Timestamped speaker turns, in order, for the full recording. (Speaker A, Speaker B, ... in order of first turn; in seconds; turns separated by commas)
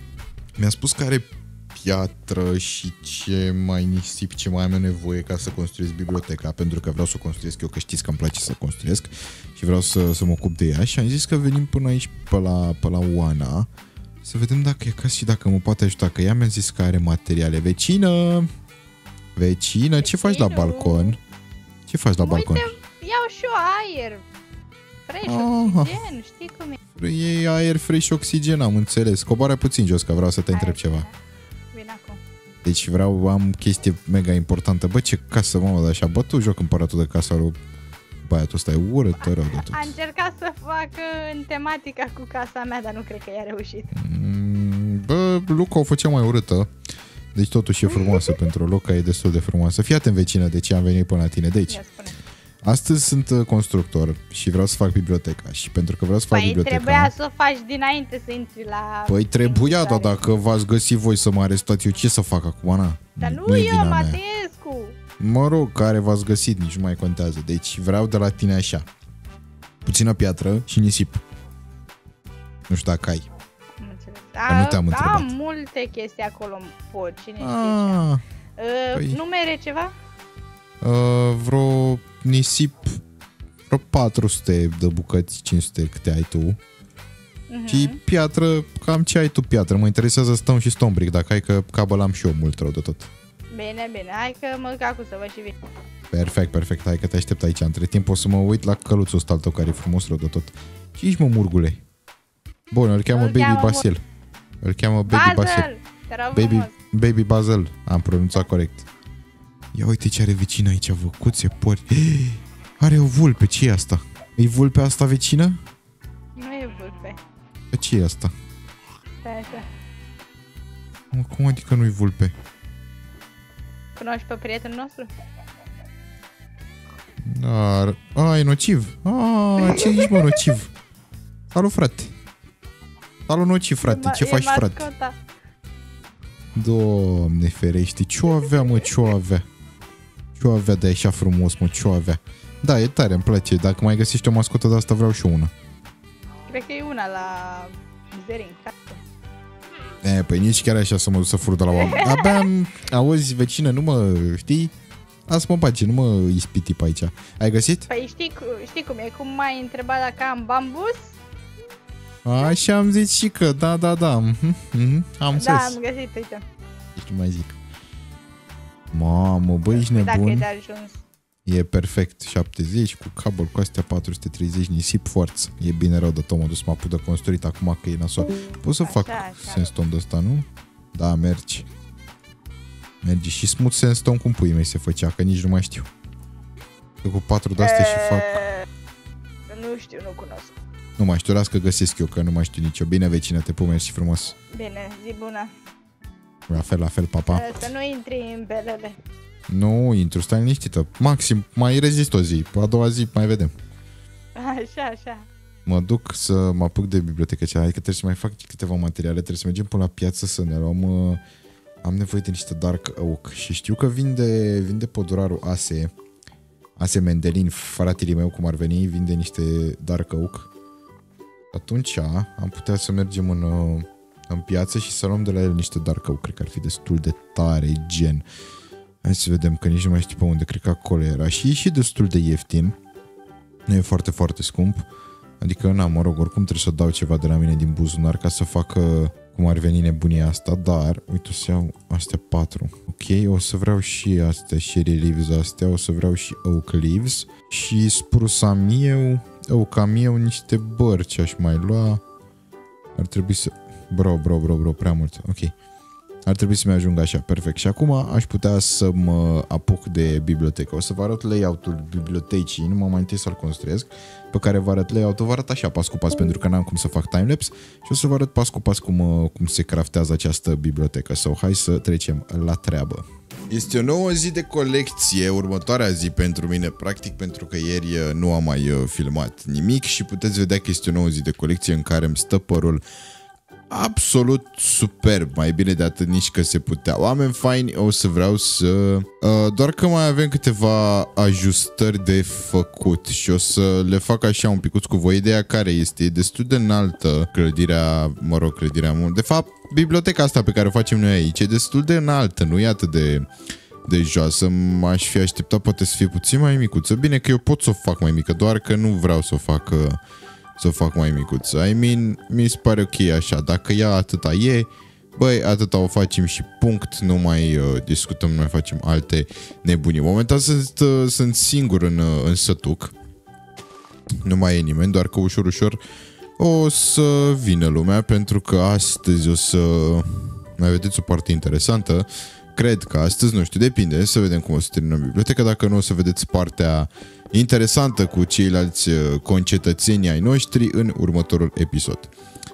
Speaker A: 0.6-13.7, Speaker A: 14.2-18.5, Speaker A: 19.4-21.2, Speaker B: 20.0-21.2, Speaker A: 21.9-22.7, Speaker B: 22.2-24.2, Speaker B: 25.1-26.8, Speaker A: 25.3-25.9, Speaker A: 26.9-31.1, Speaker B: 30.5-31.1, Speaker B: 31.7-32.2, Speaker A: 32.6-37.5, Speaker A: 38.2-39.9, Speaker B: 39.2-43.9, Speaker A: 43.9-46.7, Speaker A: 47.4-51.8, Speaker B: 47.9-48.4, Speaker B: 51.7-52.1, Speaker A: 52.6-57.1, Speaker B: 56.3-60.1, Speaker A: 59.1-64.2, Speaker B: 63.2-65.0, Speaker A: 65.2-68.9, Speaker A: 69.8-71.2, Speaker A: 72.7-73.3, Speaker B: 73.8-78.0, Speaker A: 74.5-75.3, Speaker A: 77.4-78.2, Speaker B: 78.6-79.9, Speaker A: 78.9-79.2, Speaker A: 80.8-83.0, Speaker A: 83.7-86.6, Speaker B: 87.5-88.0, Speaker A: 87.7-93.1, Speaker B: 93.5-95.6, Speaker A: 96.1-101.8, Speaker A: 102.7-104.0, Speaker B: 103.1-103.8, Speaker A: 104.6-105.7, Speaker B: 105.1-106.7, Speaker A: 106.3-108.9, Speaker A: 109.7-115.6, Speaker B: 116.4-117.2, Speaker A: 117.7-118.3, Speaker B: 119.2-119.7, Speaker A: 121.1-122.3, Speaker B: 124.0-125.1, Speaker A: 127.2-130.7, Speaker B: 129.6-130.4, Speaker A: 131.5-132.1, Speaker A: 133.3-134.9, Speaker B: 133.8-135.2, Speaker A: 136.6-139.4, Speaker A: 140.4-145.5, Speaker B: 146.5-149.0, Speaker A: 150.0-154.7, Speaker B: 151.7-152.5, Speaker A: 155.3-157.9, Speaker B: 157.9-161.2, Speaker A: 162.2-165.8, Speaker B: 165.3-166.4, Speaker A: 166.9-167.6, Speaker A: 168.9-170.5, Speaker B: 169.7-171.0, Speaker A: 171.4-181.7, Speaker B: 178.8-179.7, Speaker A: 183.0-185.9, Speaker A: 187.0-188.5, Speaker B: 187.6-188.7, Speaker B: 189.5-190.6, Speaker A: 191.0-194.3, Speaker B: 194.5-195.5, Speaker A: 196.5-197.5, Speaker B: 197.3-199.0, Speaker A: 199.5-203.5, Speaker B: 204.4-205.2, Speaker A: 205.7-211.2, Speaker A: 211.8-215.9, Speaker A: 216.8-220.5, Speaker A: 221.5-228.2, Speaker A: 229.0-232.8, Speaker A: 233.7-234.9, Speaker A: 235.4-252.0, Speaker A: 252.9-255.5, Speaker A: 256.2-282.8, Speaker A: 283.7-303.3, Speaker A: 303.9-310.0, Speaker A: 310.6-322.9, Speaker A: 324.2-325.8, Speaker A: 326.4-342.1